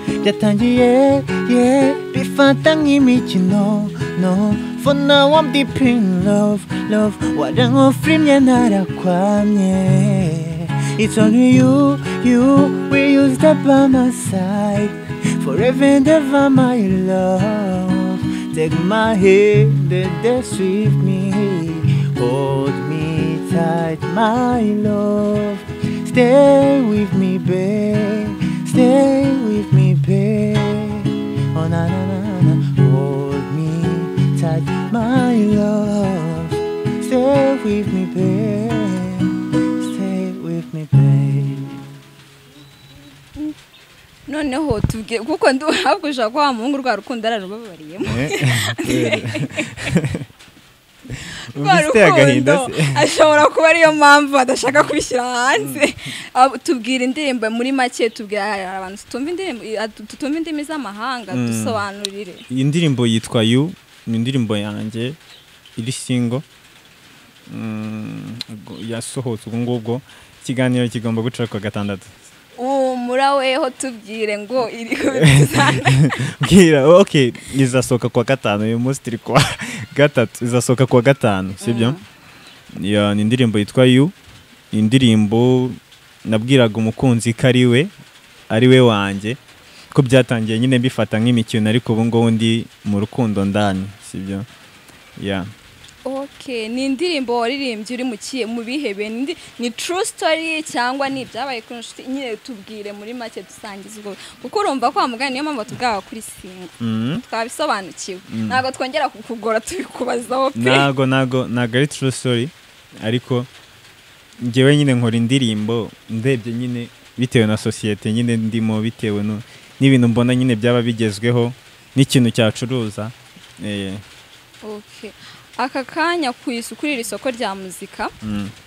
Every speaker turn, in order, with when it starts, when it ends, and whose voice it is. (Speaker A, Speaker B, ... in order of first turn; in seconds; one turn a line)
Speaker A: 0.2-41.9
Speaker B: 44.3-49.9
Speaker C: 48.0-50.2
Speaker C: 51.1-53.1
Speaker B: 51.5-62.5
Speaker C: 55.5-55.8
Speaker C: 61.3-61.8
Speaker C: 62.5-65.2
Speaker C: 65.8-66.4
Speaker C: 67.5-72.2
Speaker B: 72.6-76.2
Speaker C: 75.1-82.0
Speaker B: 81.6-82.0
Speaker C: 82.7-84.1
Speaker C: 84.7-87.9
Speaker C: 88.5-89.4
Speaker C: 89.9-94.5
Speaker C: 95.2-95.5
Speaker B: 96.0-110.9
Speaker C: 106.8-107.2
Speaker C: 108.3-108.6
Speaker C: 110.5-113.5
Speaker C: 114.4-124.0
Speaker B: 124.6-128.1
Speaker C: 128.2-128.5